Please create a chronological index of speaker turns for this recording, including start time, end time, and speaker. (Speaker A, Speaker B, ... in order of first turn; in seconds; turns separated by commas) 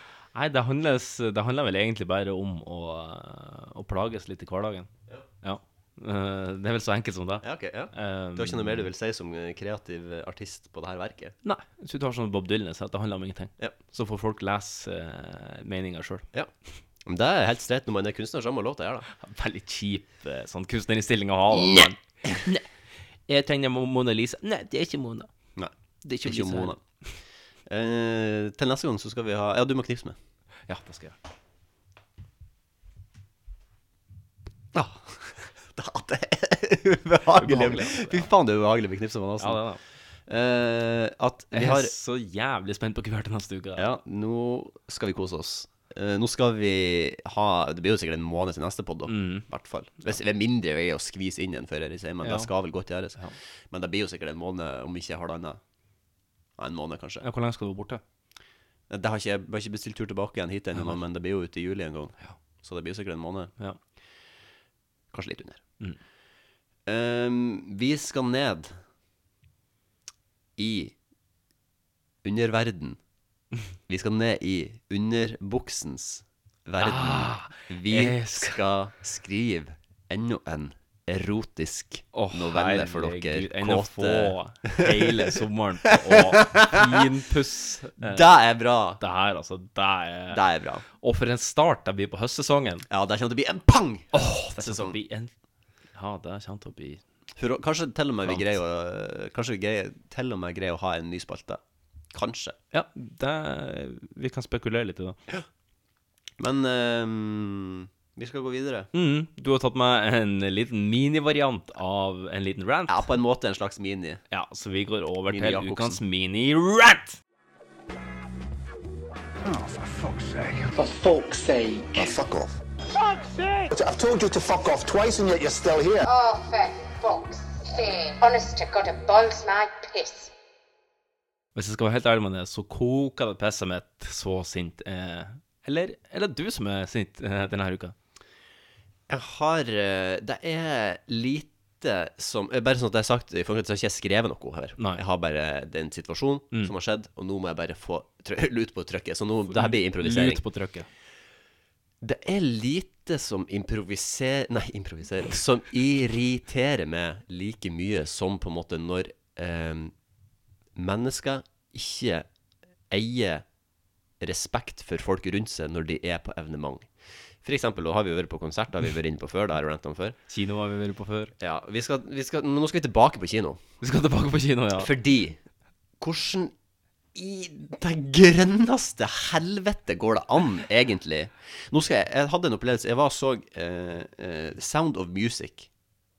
Speaker A: 0.3-4.9, Speaker A: 5.4-8.9, Speaker B: 7.4-11.3, Speaker A: 11.4-16.3, Speaker B: 17.1-19.1, Speaker A: 19.1-22.7, Speaker B: 21.5-22.4, Speaker A: 23.3-25.3, Speaker B: 25.6-26.8, Speaker A: 26.0-26.8, Speaker B: 27.7-30.2, Speaker A: 30.7-31.2, Speaker B: 34.7-39.6, Speaker A: 37.4-38.3, Speaker A: 39.4-39.8, Speaker B: 40.3-41.9, Speaker A: 41.5-43.9, Speaker B: 43.8-53.2, Speaker A: 49.1-49.5, Speaker A: 52.2-52.5, Speaker B: 53.7-55.6, Speaker B: 56.6-57.2, Speaker A: 57.2-58.0, Speaker B: 58.9-63.5, Speaker B: 65.1-65.6, Speaker B: 66.9-68.8, Speaker B: 70.6-71.0, Speaker B: 72.2-73.0, Speaker B: 73.9-85.2, Speaker A: 76.8-78.6, Speaker A: 82.1-88.3, Speaker B: 86.1-87.0, Speaker B: 88.0-89.0, Speaker A: 89.0-90.4, Speaker B: 90.3-90.8, Speaker A: 91.0-92.9, Speaker B: 92.9-95.0, Speaker A: 94.1-95.3, Speaker A: 96.0-97.0, Speaker B: 97.4-101.6, Speaker B: 102.1-102.6, Speaker A: 102.7-105.2, Speaker B: 106.4-108.9, Speaker A: 108.9-113.1, Speaker B: 112.9-114.2, Speaker A: 114.3-117.2, Speaker B: 115.3-116.0, Speaker C: 121.9-122.5, Speaker C: 123.7-126.1, Speaker D: 126.0-130.3, Speaker A: 131.6-137.9, Speaker B: 139.1-150.4, Speaker A: 144.8-145.0, Speaker A: 149.5-150.9, Speaker B: 152.0-159.9, Speaker B: 160.8-162.3, Speaker B: 162.9-163.4, Speaker B: 164.2-166.9, Speaker B: 167.4-170.2, Speaker A: 170.3-171.3, Speaker B: 171.4-173.6, Speaker A: 173.8-174.9, Speaker B: 174.8-175.4, Speaker B: 176.0-176.5, Speaker B: 177.2-185.7